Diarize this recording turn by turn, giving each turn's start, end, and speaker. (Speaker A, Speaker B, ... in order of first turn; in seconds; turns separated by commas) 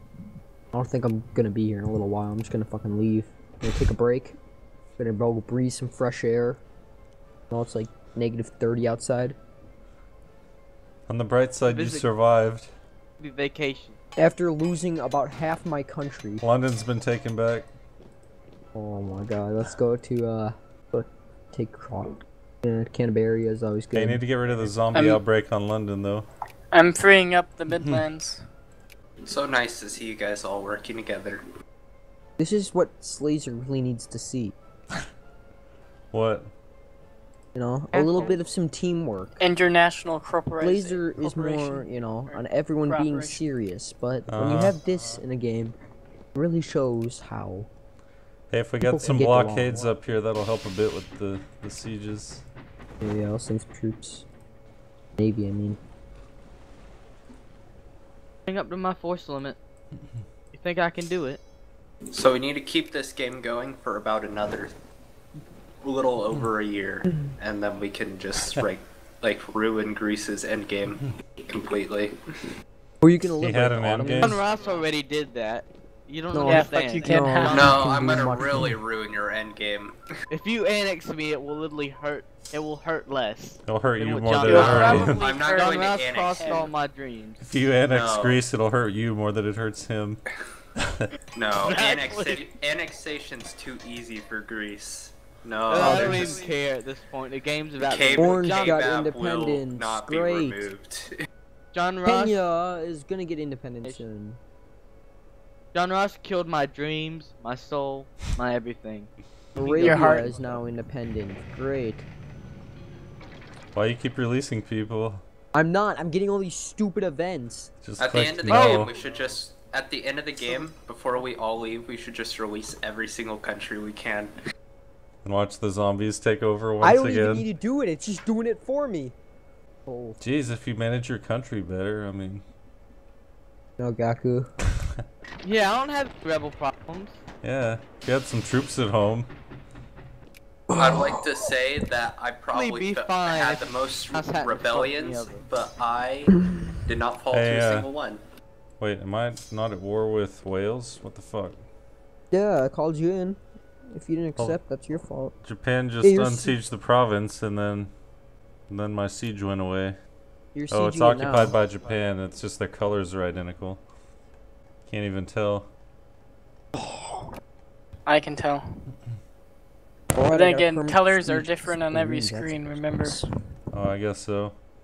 Speaker A: 0.7-4.4, Speaker A: 5.0-6.6, Speaker A: 7.5-9.4, Speaker B: 11.1-12.7, Speaker C: 11.6-12.1, Speaker C: 13.2-14.0, Speaker A: 14.2-16.4, Speaker B: 16.4-17.7, Speaker A: 18.7-24.4, Speaker B: 23.9-26.3, Speaker D: 24.9-25.2, Speaker D: 26.7-28.4, Speaker E: 29.2-31.4, Speaker A: 32.4-34.5, Speaker B: 36.1-36.5, Speaker A: 37.5-39.4, Speaker C: 37.9-38.4, Speaker D: 39.4-43.4, Speaker A: 40.6-45.7, Speaker B: 44.3-44.8, Speaker A: 46.3-47.7, Speaker B: 48.5-52.5, Speaker A: 48.8-49.8, Speaker A: 53.0-54.3, Speaker A: 55.2-55.8, Speaker C: 58.5-59.6, Speaker C: 60.5-61.4, Speaker E: 62.1-64.7, Speaker E: 65.8-72.1, Speaker A: 73.0-74.4, Speaker B: 73.4-74.4, Speaker C: 74.2-77.7, Speaker A: 76.3-78.7, Speaker D: 76.4-77.7, Speaker E: 77.5-80.0, Speaker C: 80.3-87.4, Speaker B: 83.7-85.2, Speaker D: 84.4-86.7, Speaker E: 84.5-86.7, Speaker B: 87.4-90.2, Speaker E: 87.9-88.4, Speaker B: 90.8-91.1, Speaker E: 91.3-96.4, Speaker C: 91.6-92.4, Speaker C: 95.7-98.8, Speaker A: 95.8-96.2, Speaker E: 97.8-101.2, Speaker A: 98.2-100.7, Speaker C: 101.7-102.4, Speaker A: 102.0-104.4, Speaker C: 105.7-110.4, Speaker A: 109.5-112.1, Speaker D: 109.8-110.3, Speaker B: 113.7-115.2, Speaker A: 115.5-117.7, Speaker B: 117.8-118.9, Speaker E: 118.0-124.3, Speaker C: 118.5-118.9, Speaker B: 125.2-127.4, Speaker A: 126.8-129.1, Speaker A: 129.8-130.2, Speaker B: 130.2-132.4, Speaker A: 133.8-134.5, Speaker C: 135.4-137.2, Speaker B: 137.4-139.3, Speaker A: 140.7-141.2, Speaker E: 140.7-148.2, Speaker C: 142.5-145.4, Speaker B: 147.3-147.9, Speaker B: 148.8-151.6, Speaker A: 152.3-153.4, Speaker A: 153.9-155.3, Speaker B: 155.4-157.9, Speaker A: 156.0-156.6, Speaker B: 158.7-160.0, Speaker A: 160.5-161.6, Speaker B: 160.7-163.8, Speaker B: 164.9-165.7, Speaker A: 166.7-167.3, Speaker D: 168.1-168.8, Speaker A: 170.1-173.3, Speaker D: 170.2-173.2, Speaker B: 173.7-174.6